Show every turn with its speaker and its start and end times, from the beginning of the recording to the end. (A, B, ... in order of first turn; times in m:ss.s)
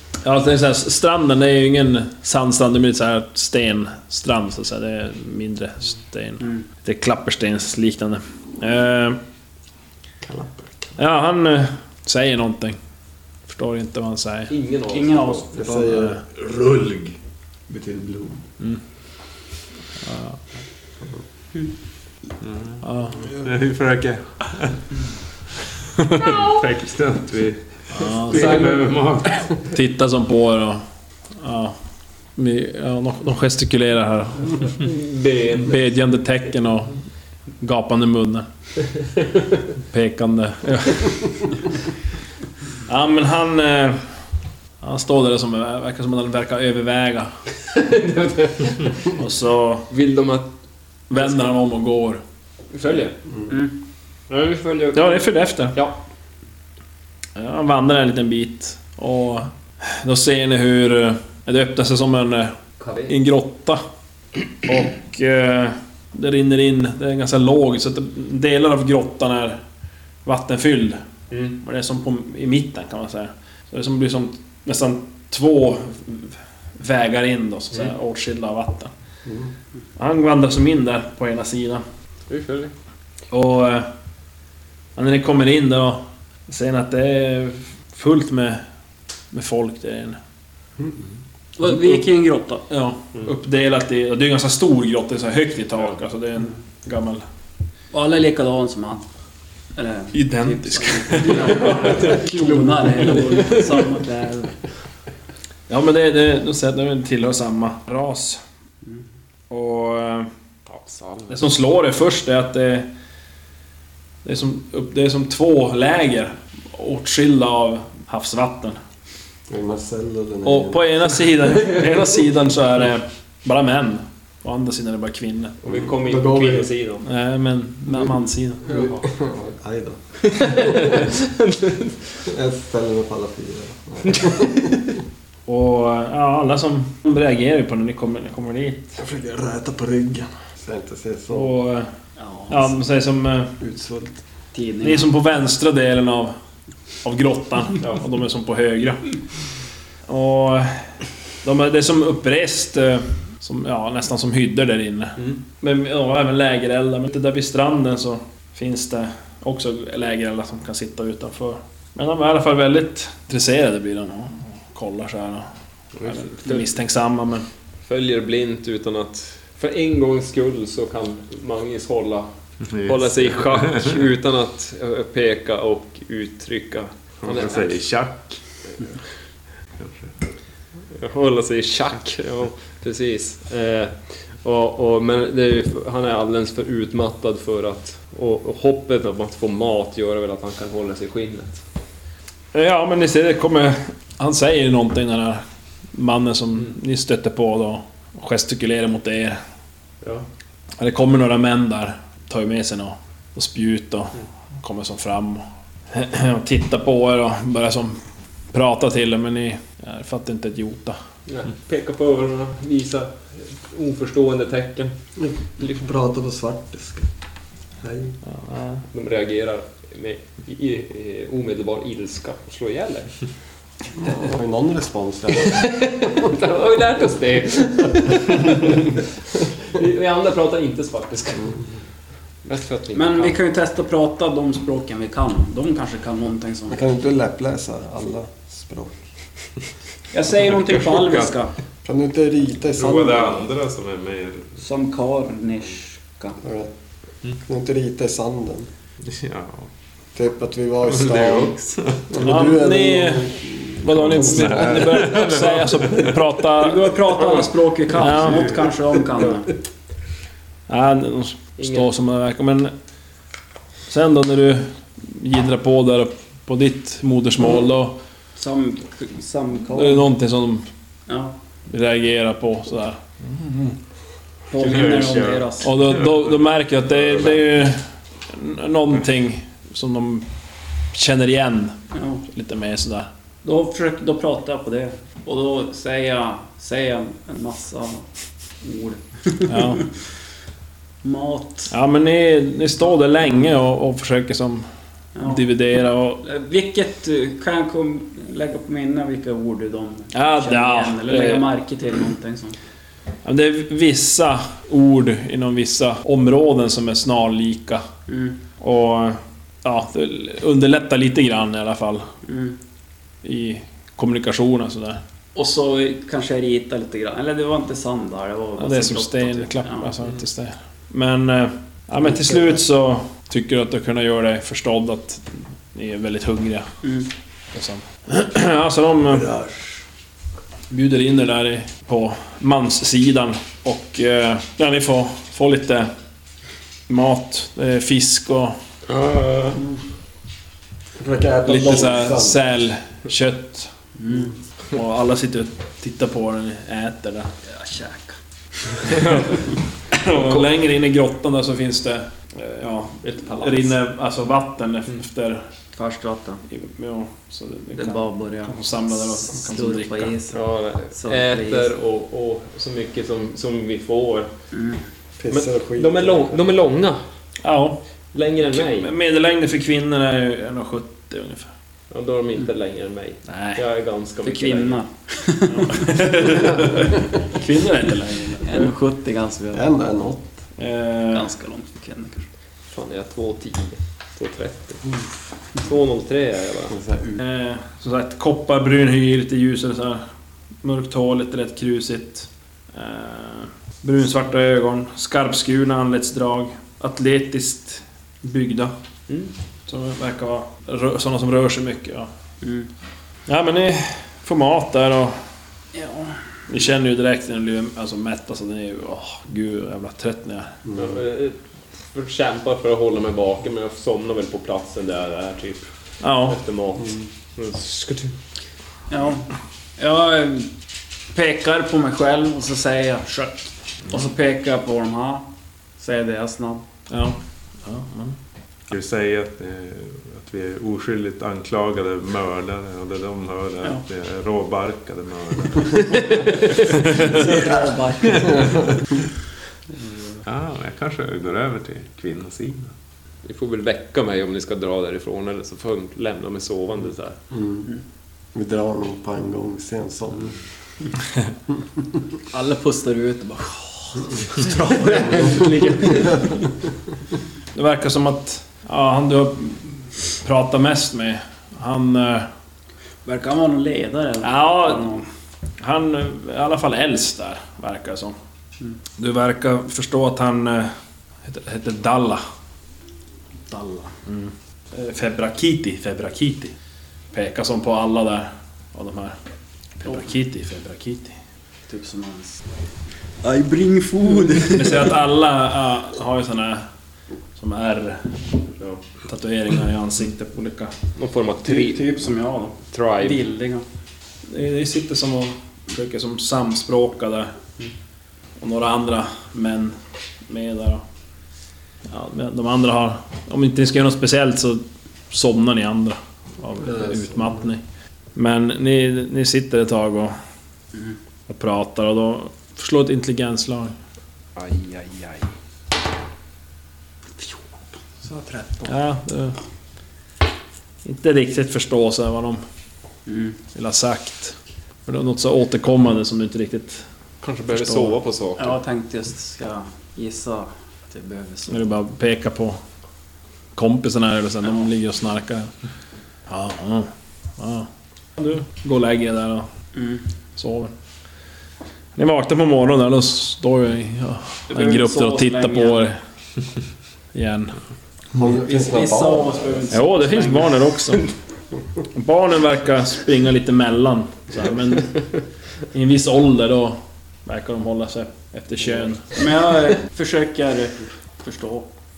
0:00.2-0:09.2 A
0:10.2-0:11.0 B
0:11.0-0:12.8 A
0:13.5-0:14.5 A
0:14.5-0:15.5 C
0:14.9-0:15.9 D
0:15.5-0:16.4 B
0:15.9-0:16.2 A
0:16.5-0:17.1 E
0:17.7-0:18.4 B
0:20.0-0:20.4 A
0:22.4-0:22.8 E
0:22.8-0:23.2 A
0:23.4-0:24.8 E
0:26.0-0:29.6 E
0:27.9-0:28.7 A
0:28.3-0:28.8 C
0:29.7-0:30.8 A
0:31.4-0:31.8 A
0:32.4-0:34.7 A
0:34.8-0:35.8 C
0:35.6-0:37.0 A
0:37.6-0:38.5 A
0:39.9-0:41.4 A
0:42.9-0:44.0 A
0:44.8-0:47.3 A
0:47.7-0:49.1 C
0:49.1-0:49.9 A
0:49.9-0:50.5 C
0:51.1-0:52.2 A
0:52.7-0:53.1 C
0:54.3-0:56.0 C
0:54.9-0:55.8 A
0:57.4-1:02.6 A
1:02.8-1:03.1 C
1:03.1-1:03.8 A
1:04.6-1:09.6 A
1:10.2-1:11.0 A
1:11.3-1:11.6 C
1:11.6-1:18.9 A
1:19.2-1:19.5 B
1:20.0-1:21.8 A
1:22.3-1:22.7 C
1:23.3-1:23.9 A
1:25.0-1:28.6 A
1:29.3-1:30.2 A
1:31.6-1:32.6 D
1:31.6-1:32.0 A
1:32.7-1:37.2 A
1:37.9-1:39.0 D
1:39.7-1:44.5 D
1:40.1-1:42.1 A
1:41.4-1:42.3 C
1:42.4-1:42.6 B
1:43.2-1:43.6 C
1:45.7-1:48.4 A
1:49.5-1:50.3 A
1:50.7-1:51.3 C
1:51.3-1:52.9 A
1:54.2-1:58.8 A
1:59.5-2:00.8 B
2:00.4-2:05.6 A
2:05.6-2:07.0 C
2:06.0-2:06.7 B
2:07.0-2:08.6 A
2:08.6-2:10.9 B
2:08.7-2:09.0 C
2:10.2-2:12.2 C
2:12.2-2:14.8 B
2:15.5-2:19.0 A
2:19.0-2:21.5 B
2:21.3-2:21.9 A
2:22.2-2:22.6 D
2:22.5-2:23.5 A
2:23.6-2:24.1 B
2:24.5-2:25.1 D
2:24.8-2:26.3 A
2:27.0-2:29.1 A
2:30.1-2:30.9 A
2:31.4-2:45.5 A
2:46.0-2:46.6 C
2:46.0-2:47.4 A
2:47.8-2:52.3 C
2:52.7-2:53.0 E
2:52.8-2:57.8 C
2:57.2-2:58.4 E
2:59.8-3:00.1 E
3:00.9-3:11.6 C
3:12.5-3:15.4 A
3:15.9-3:19.4 A
3:20.8-3:28.0 A
3:28.5-3:31.0 A
3:31.3-3:34.9 C
3:35.2-3:37.1 B
3:37.8-3:38.2 B
3:38.3-3:38.8 A
3:38.9-3:43.1 C
3:44.0-3:45.6 B
3:45.3-3:51.6 C
3:52.4-3:53.4 C
3:52.9-3:56.8 D
3:56.7-3:59.0 B
4:00.1-4:01.5 D
4:01.8-4:03.4 B
4:02.8-4:04.6 E
4:04.6-4:06.4 D
4:06.4-4:06.7 B
4:07.4-4:08.7 B
4:09.1-4:09.7 E
4:10.1-4:11.6 B
4:10.9-4:12.1 E
4:12.1-4:15.1 B
4:12.2-4:16.9 A
4:14.2-4:15.8 E
4:16.5-4:19.5 D
4:17.9-4:18.6 A
4:20.7-4:22.7 A
4:21.6-4:21.8 C
4:23.9-4:28.0 A
4:28.4-4:30.1 D
4:29.7-4:30.6 A
4:31.1-4:31.3 D
4:31.7-4:33.8 A
4:34.5-4:35.7 D
4:34.6-4:35.5 E
4:35.6-4:40.2 A
4:40.9-4:41.8 A
4:41.9-4:42.2 D
4:42.3-4:43.1 A
4:43.4-4:48.1 D
4:48.6-4:49.8 D
4:49.4-4:49.8 A
4:51.0-4:51.7 D
4:51.7-4:54.7 A
4:55.1-4:55.4 D
4:55.2-4:56.2 A
4:56.2-5:02.6 D
5:00.1-5:01.5 A
5:03.2-5:07.8 A
5:08.1-5:08.4 D
5:08.6-5:12.1 A
5:12.2-5:12.6 D
5:13.2-5:15.0 A
5:15.3-5:19.9 D
5:18.6-5:26.7 A
5:26.8-5:27.1 D
5:27.5-5:29.3 A
5:29.1-5:29.8 B
5:30.7-5:35.9 A
5:36.9-5:38.6 A
5:39.0-5:39.5 E
5:41.0-5:42.4 B
5:41.4-5:43.7 A
5:44.0-5:44.3 D
5:44.7-5:47.3 A
5:47.4-5:48.2 D
5:48.7-5:49.0 D
5:49.9-5:55.4 A
5:53.3-5:53.6 C
5:55.7-5:56.4 D
5:56.4-6:00.2 A
5:57.8-6:00.4 D
6:00.3-6:04.3 C
6:00.9-6:01.7 D
6:04.5-6:04.8 D
6:05.2-6:06.5 B
6:05.3-6:07.0 C
6:07.4-6:07.8 A
6:08.1-6:08.9 C
6:08.4-6:11.5 A
6:11.9-6:14.8 C
6:13.3-6:13.6 A
6:14.2-6:16.0 D
6:15.5-6:18.7 A
6:16.3-6:16.6 C
6:18.4-6:19.6 D
6:19.5-6:20.3 B
6:20.6-6:21.3 A
6:21.1-6:22.3 D
6:22.7-6:24.8 C
6:25.6-6:26.8 C
6:26.7-6:27.2 B
6:27.2-6:30.0 A
6:30.6-6:38.7 A
6:39.7-6:42.1 A
6:42.4-6:42.7 D
6:43.3-6:45.2 A
6:45.7-6:46.2 D
6:46.5-6:50.5 A
6:50.6-6:51.0 B
6:50.7-6:51.3 C
6:51.9-6:55.7 C
6:56.0-6:56.4 A
6:56.3-6:58.1 C
6:58.9-6:59.3 D
6:59.8-7:00.5 D
7:01.1-7:05.2 D
7:05.8-7:06.6 D
7:06.9-7:08.2 A
7:08.7-7:15.8 E
7:15.8-7:16.7 C
7:16.8-7:17.3 E
7:16.9-7:18.8 D
7:20.2-7:22.7 E
7:23.2-7:27.2 C
7:27.3-7:27.7 B
7:28.3-7:30.4 B
7:32.3-7:36.5 D
7:35.0-7:35.4 B
7:35.1-7:35.5 C
7:37.5-7:42.3 A
7:43.0-7:45.0 D
7:44.2-7:45.0 A
7:45.6-7:48.2 A
7:49.0-7:50.7 A
7:51.2-7:52.2 A
7:53.5-7:53.9 D
7:54.0-7:56.5 A
7:57.1-7:59.2 A
7:59.8-8:01.2 A
8:01.7-8:02.4 D
8:03.2-8:04.9 D
8:04.5-8:06.7 A
8:07.4-8:08.2 A
8:09.0-8:10.7 A
8:11.0-8:11.9 C
8:11.4-8:13.6 D
8:12.7-8:13.2 C
8:14.3-8:17.3 A
8:18.4-8:19.8 A
8:20.3-8:20.8 A
8:21.9-8:27.6 A
8:26.6-8:27.3 B
8:28.1-8:30.1 A
8:31.3-8:33.8 A
8:38.0-8:38.7 D
8:38.6-8:39.4 A
8:40.8-8:42.4 A
8:43.0-8:43.4 D
8:43.5-8:46.8 A
8:47.2-8:48.5 C
8:47.5-8:48.0 A
8:48.4-8:51.7 D
8:51.5-8:52.6 A
8:53.5-8:55.5 A
8:56.3-8:59.5 A
8:59.7-9:00.0 D
9:00.4-9:00.7 A
9:02.0-9:06.0 A
9:04.5-9:05.8 D
9:07.1-9:07.6 A
9:08.1-9:09.7 B
9:08.3-9:10.6 D
9:09.7-9:11.1 A
9:11.9-9:15.0 A
9:15.7-9:19.1 A
9:19.1-9:21.7 D